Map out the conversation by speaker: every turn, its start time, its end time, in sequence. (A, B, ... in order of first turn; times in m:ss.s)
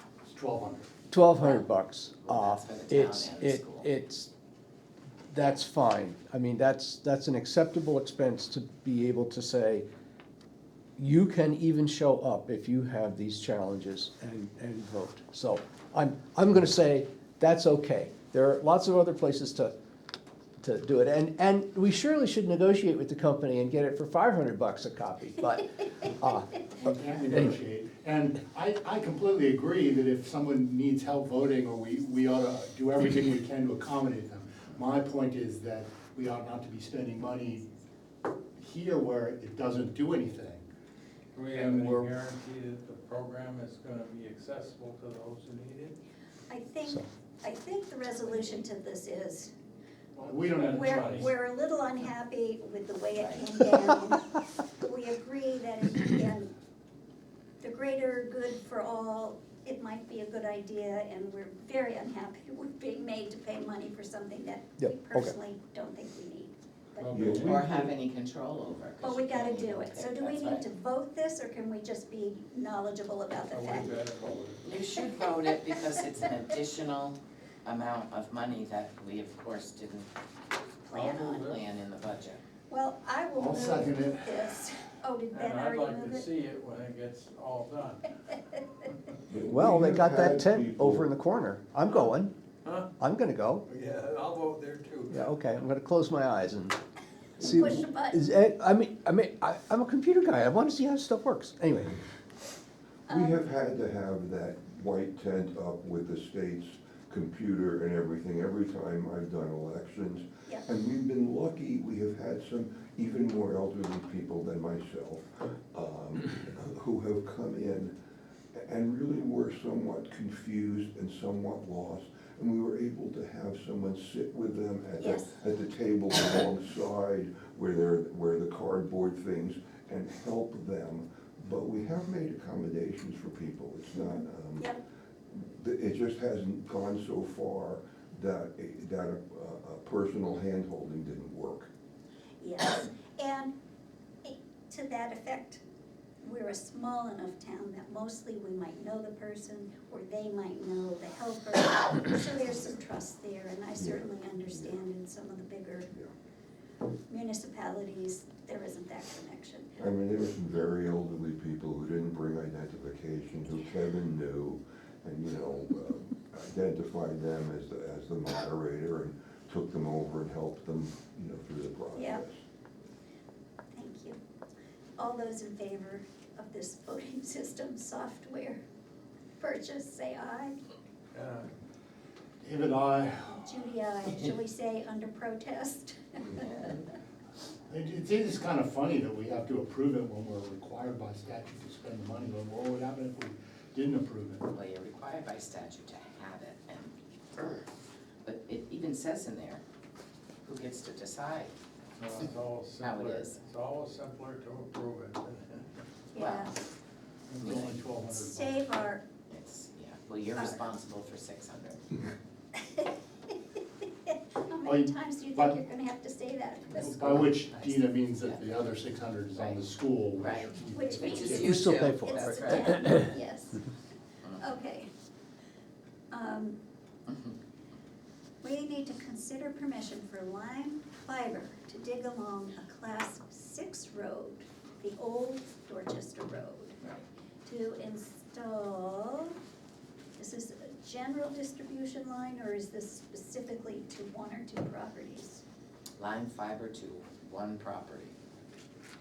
0:00.2-0:00.9 A
0:01.1-0:04.3 B
0:02.2-0:03.9 C
0:05.3-0:09.8 B
0:11.0-0:19.7 B
0:20.6-0:26.6 B
0:26.8-0:37.6 A
0:38.6-0:40.6 A
0:41.3-0:46.0 D
0:41.5-0:42.1 A
0:46.5-0:49.5 E
0:50.2-0:51.3 D
0:50.2-0:51.3 A
0:50.7-0:56.5 E
0:53.1-0:53.4 C
0:57.6-1:07.3 E
1:04.8-1:05.3 B
1:07.0-1:07.6 D
1:07.1-1:07.9 F
1:07.3-1:10.6 C
1:09.0-1:13.9 E
1:13.4-1:14.8 D
1:14.6-1:20.1 C
1:20.8-1:22.4 C
1:20.9-1:21.4 E
1:21.2-1:21.6 D
1:22.7-1:26.3 E
1:23.3-1:24.3 A
1:25.3-1:28.0 D
1:29.3-1:31.1 F
1:29.5-1:32.3 B
1:33.0-1:33.6 B
1:33.7-1:35.2 D
1:35.1-1:36.8 B
1:37.4-1:42.0 B
1:37.4-1:37.7 F
1:37.4-1:38.2 E
1:43.1-1:43.4 E
1:43.1-1:57.9 F
1:58.5-2:14.7 F
2:05.0-2:05.3 E
2:14.0-2:14.8 E
2:15.3-2:21.7 F
2:22.4-2:23.5 E
2:24.2-2:25.6 E
2:26.2-2:35.9 E
2:33.7-2:34.8 F
2:37.1-2:39.7 E
2:39.8-2:52.4 F
2:52.0-2:52.2 E
2:53.7-2:54.2 E
2:55.0-2:58.6 E
2:59.4-3:00.5 E
3:01.1-3:01.5 D
3:02.4-3:03.4 A
3:03.4-3:06.6 E
3:07.7-3:14.5 A
3:14.5-3:17.6 C
3:18.2-3:19.6 C
3:20.4-3:21.5 C
3:22.0-3:25.6 D
3:22.8-3:23.4 C
3:26.1-3:26.5 E
3:26.2-3:26.5 C
3:27.3-3:28.6 A
3:27.4-3:27.8 C
3:28.1-3:29.0 E
3:29.3-3:32.0 C
3:30.4-3:30.6 E
3:32.6-3:32.9 E
3:34.1-3:37.1 E
3:34.6-3:35.6 A
3:36.7-3:41.6 A
3:37.6-3:38.4 C
3:39.4-3:39.6 C
3:40.2-3:43.0 C
3:40.7-3:43.6 E
3:41.4-3:43.0 B
3:44.4-3:44.9 E
3:46.1-3:46.6 E
3:47.1-3:47.3 C
3:48.4-3:56.8 E
3:57.4-3:59.3 E
4:00.2-4:05.4 E
4:06.0-4:08.1 C